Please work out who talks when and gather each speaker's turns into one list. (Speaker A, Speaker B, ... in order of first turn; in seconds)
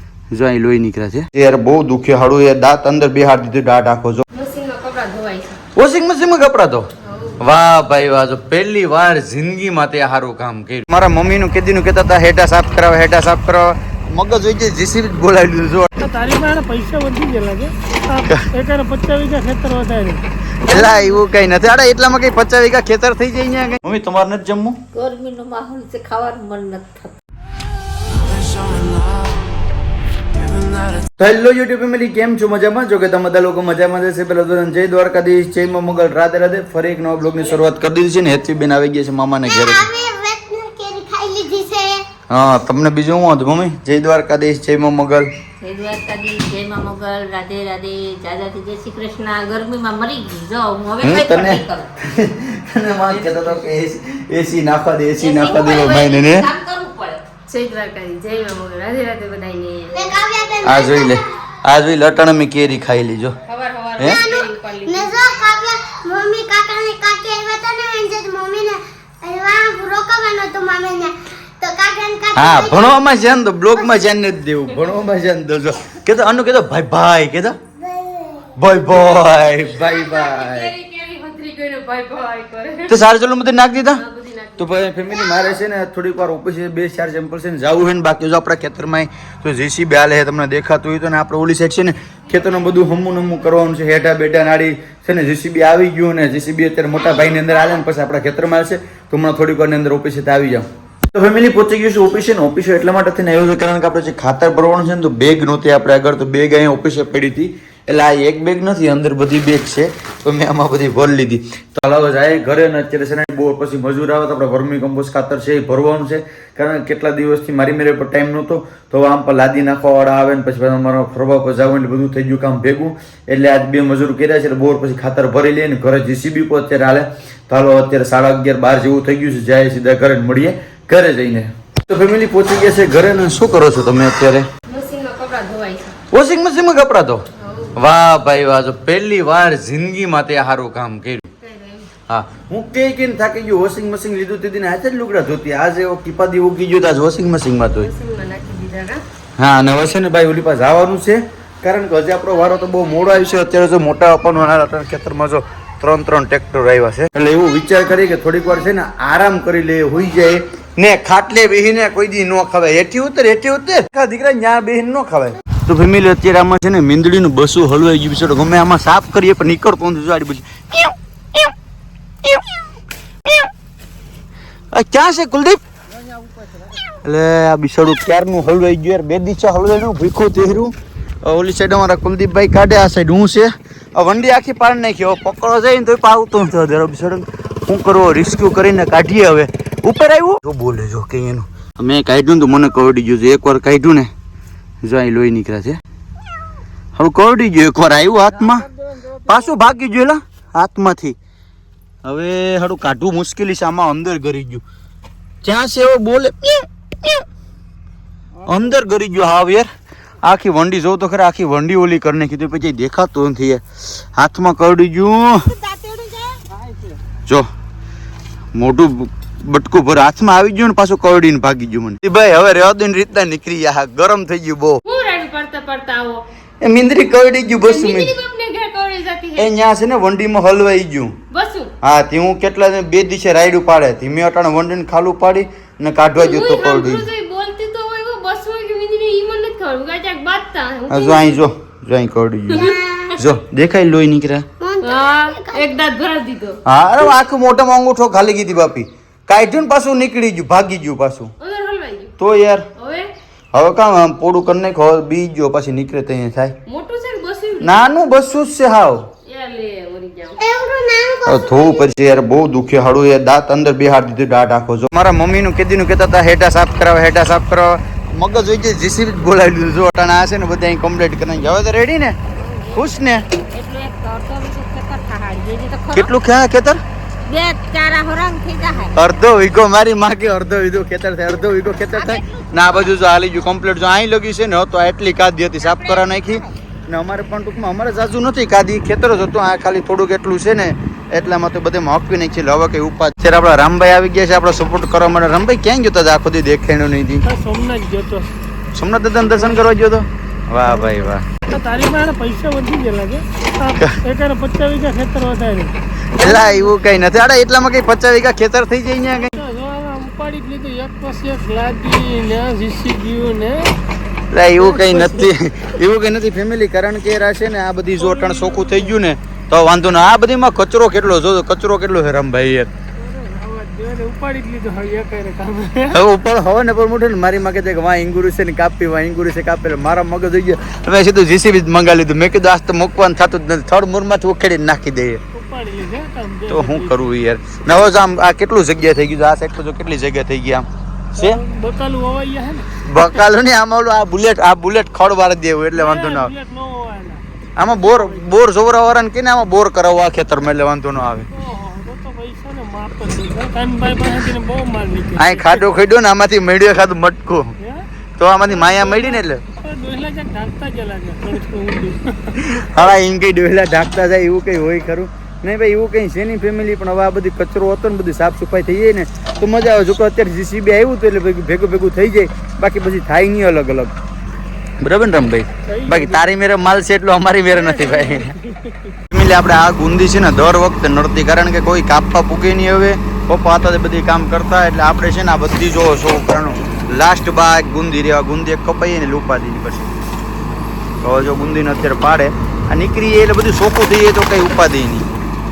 Speaker A: 0.3-4.2, 5.7-6.9, 7.4-15.9, 18.2-18.5, 20.6-24.8, 31.2-39.9, 42.3-45.3, 51.0-56.5, 60.6-63.4, 64.0-64.2, 72.3-77.6, 78.5-80.7, 82.9-84.0, 84.6-134.5, 136.1-141.2, 142.1-147.9, 149.4-171.5, 174.7-175.6, 176.9-194.1, 194.8-195.8, 196.9-201.2, 202.0-204.6, 205.4-207.2, 208.4-209.7, 210.2-215.5, 218.5-224.8, 226.6-228.1, 229.3-231.1, 231.8-237.1, 240.9-244.5, 246.7-251.3, 252.2-252.7, 253.5-256.6, 257.6-259.1, 261.2-272.2, 272.7-273.2, 275.9-276.8, 278.9-297.2, 298.7-301.2, 303.7-304.0, 306.1-309.4, 314.3-322.7, 325.9-335.2, 336.5-341.4, 342.8-346.3, 347.6-351.3, 355.2-357.5, 358.2-359.4, 362.3-373.9, 374.8-378.4, 379.1-389.9, 391.0-395.1
Speaker B: 4.3-5.6, 7.0-7.4, 53.1-53.6, 57.4-60.0, 63.5-65.2, 79.6-82.9, 83.9-85.5, 134.7-135.9, 137.4-137.8, 141.4-141.9, 147.7-149.0, 224.8-226.2, 227.4-229.5, 231.3-231.7, 236.1-241.4, 242.5-242.8, 244.8-246.6, 251.4-252.1, 252.8-253.1, 256.7-257.8, 259.2-260.4
Speaker C: 16.0-20.2, 297.2-298.3, 300.6-306.8, 309.1-313.7, 314.6-315.3, 318.0-319.0, 323.0-326.0, 335.3-337.0, 341.1-342.7, 345.7-348.3, 351.3-355.6, 357.6-357.9, 358.4-362.4, 375.6-376.2, 377.5-379.0
Speaker D: 24.9-27.2, 45.6-51.9, 55.2-57.2, 215.6-216.4, 272.4-272.9, 273.5-276.1, 277.2-278.9, 281.9-282.6
Speaker E: 39.4-42.0, 59.9-61.2, 64.0-73.1, 73.7-74.3, 77.8-79.0, 242.5-243.2, 244.6-245.7, 260.4-261.9